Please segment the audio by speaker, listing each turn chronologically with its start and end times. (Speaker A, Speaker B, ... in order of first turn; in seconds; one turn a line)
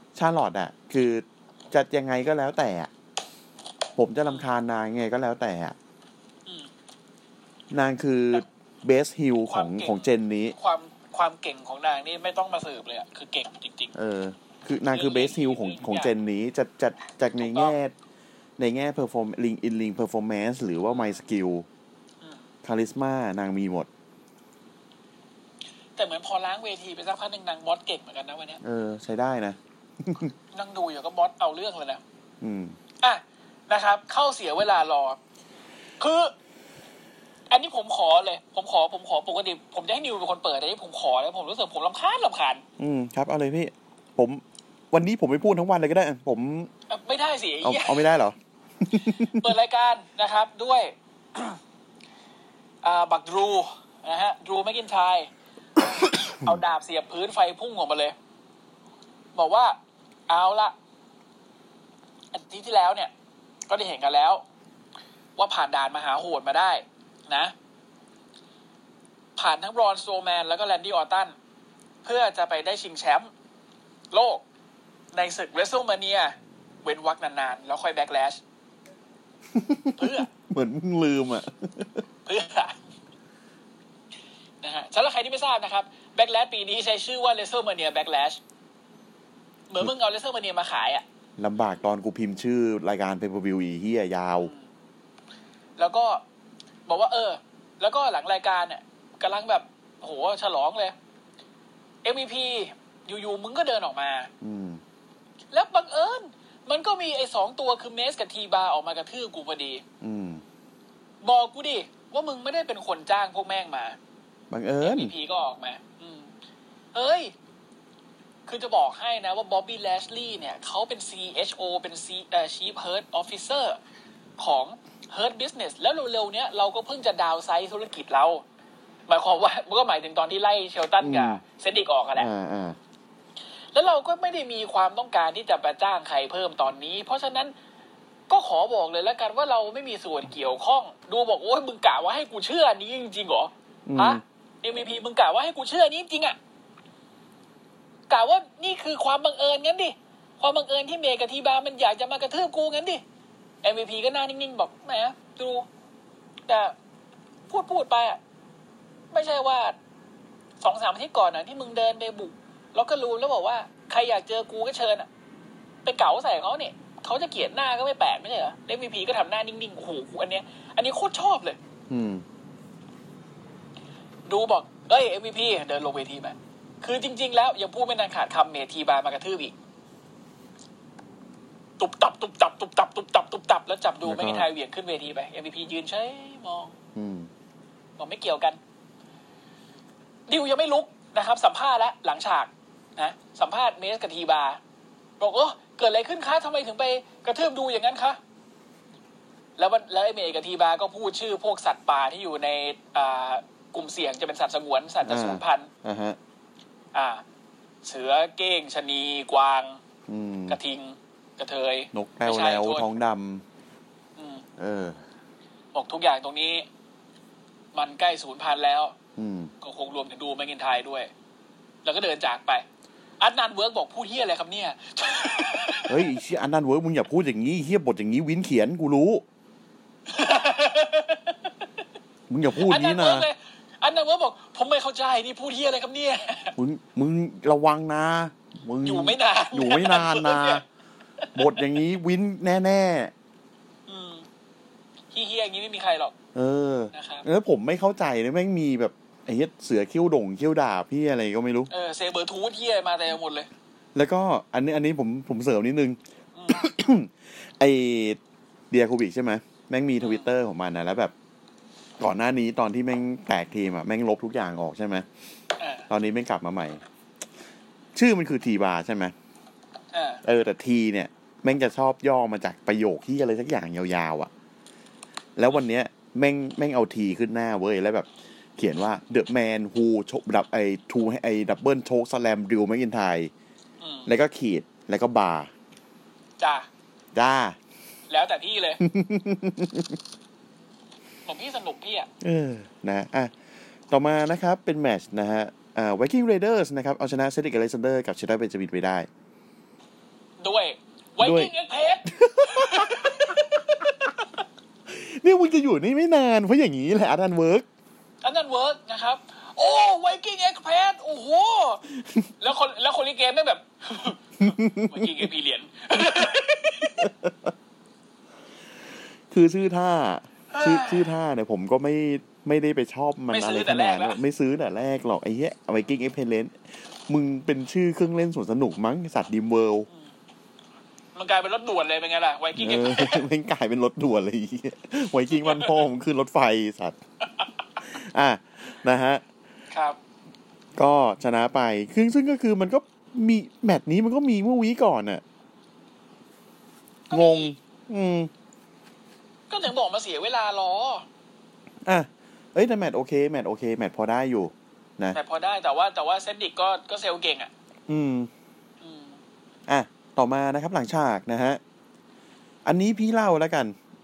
Speaker A: 0.1-2.9
Speaker A: 4.0-5.8
Speaker A: 7.7-10.6
Speaker B: 9.5-13.9
Speaker A: 13.9-17.9
Speaker B: 14.9-16.1
Speaker B: 17.4-17.8
Speaker A: 18.6-21.7
Speaker B: 20.9-21.2
Speaker B: 22.2-22.5
Speaker A: 22.6-23.9
Speaker B: 26.0-28.6
Speaker A: 28.6-30.3
Speaker B: 30.5-32.0
Speaker A: 32.4-32.8
Speaker B: 33.0-35.2
Speaker B: 36.0-36.3
Speaker B: 37.5-42.6
Speaker A: 42.8-46.7
Speaker B: 46.9-48.1
Speaker A: 47.6-48.4
Speaker A: 48.9-49.5
Speaker B: 48.9-51.6
Speaker B: 52.8-58.1
Speaker B: 59.4-59.8
Speaker B: 60.3-60.8
Speaker B: 62.3-63.1
Speaker B: 63.7-64.4
Speaker B: 65.4-67.5
Speaker B: 69.4-71.4
Speaker B: 72.0-73.3
Speaker B: 74.1-74.4
Speaker B: 75.1-78.4
Speaker A: 79.5-82.0
Speaker B: 80.0-80.3
Speaker B: 82.3-82.8
Speaker B: 84.6-88.4
Speaker B: 89.7-91.0
Speaker A: 91.4-94.5
Speaker B: 94.4-94.7
Speaker B: 95.8-96.2
Speaker B: 96.9-101.0
Speaker B: 102.0-104.3
Speaker A: 104.4-104.8
Speaker B: 105.5-109.8
Speaker A: 110.0-110.4
Speaker B: 111.2-114.0
Speaker A: 114.5-115.1
Speaker B: 114.8-116.3
Speaker B: 116.9-117.3
Speaker B: 118.5-123.8
Speaker B: 124.4-128.4
Speaker B: 129.1-132.3
Speaker A: 131.0-131.4
Speaker A: 132.2-132.8
Speaker B: 133.7-137.5
Speaker B: 138.3-146.4
Speaker A: 143.9-144.2
Speaker B: 148.1-153.0
Speaker B: 153.6-155.7
Speaker B: 156.5-156.8
Speaker B: 157.5-158.2
Speaker B: 159.1-159.8
Speaker B: 160.6-165.1
Speaker B: 165.8-171.6
Speaker A: 171.9-172.2
Speaker B: 174.3-179.6
Speaker B: 181.8-186.8
Speaker A: 184.0-184.5
Speaker A: 186.9-187.3
Speaker B: 188.0-188.6
Speaker B: 190.3-194.6
Speaker B: 195.2-198.2
Speaker B: 199.6-205.7
Speaker A: 205.0-206.2
Speaker B: 206.9-207.2
Speaker B: 207.8-209.8
Speaker A: 210.1-210.6
Speaker B: 210.5-212.9
Speaker A: 211.9-213.4
Speaker B: 214.2-214.4
Speaker A: 214.6-215.0
Speaker B: 215.7-216.7
Speaker B: 217.7-218.9
Speaker A: 219.2-219.5
Speaker B: 219.6-221.1
Speaker B: 221.8-222.7
Speaker B: 223.2-226.1
Speaker A: 225.9-229.2
Speaker B: 230.1-231.5
Speaker A: 232.3-233.3
Speaker B: 232.6-236.6
Speaker A: 236.6-240.6
Speaker B: 238.8-240.6
Speaker B: 241.2-241.5
Speaker A: 241.3-243.1
Speaker B: 243.9-244.3
Speaker B: 245.1-246.1
Speaker A: 246.3-251.7
Speaker B: 246.9-247.3
Speaker B: 251.7-253.5
Speaker A: 253.9-258.2
Speaker B: 256.4-256.7
Speaker A: 258.7-261.1
Speaker B: 260.0-260.3
Speaker A: 262.0-265.1
Speaker B: 265.6-265.9
Speaker A: 265.9-266.8
Speaker A: 267.9-269.1
Speaker B: 269.9-270.2
Speaker A: 270.2-274.3
Speaker A: 275.4-283.3
Speaker B: 283.8-284.1
Speaker A: 284.1-285.5
Speaker B: 286.4-286.7
Speaker A: 287.1-287.6
Speaker B: 288.1-288.8
Speaker A: 288.8-290.0
Speaker B: 291.3-292.1
Speaker A: 292.2-293.3
Speaker A: 293.9-299.1
Speaker B: 300.4-304.3
Speaker A: 301.2-301.5
Speaker A: 302.1-303.9
Speaker A: 304.9-307.7
Speaker B: 308.2-311.9
Speaker B: 312.4-317.1
Speaker A: 314.4-315.2
Speaker A: 317.0-317.5
Speaker A: 319.3-329.9
Speaker B: 320.5-321.1
Speaker B: 323.3-324.2
Speaker B: 331.1-333.2
Speaker A: 332.6-337.0
Speaker B: 335.4-335.8
Speaker A: 337.8-339.2
Speaker B: 339.7-340.0
Speaker A: 340.8-345.2
Speaker B: 347.1-347.5
Speaker A: 347.1-348.3
Speaker B: 349.5-351.1
Speaker A: 351.9-355.2
Speaker B: 355.1-357.5
Speaker A: 357.9-358.3
Speaker B: 358.8-359.2
Speaker A: 359.7-361.6
Speaker A: 362.6-363.8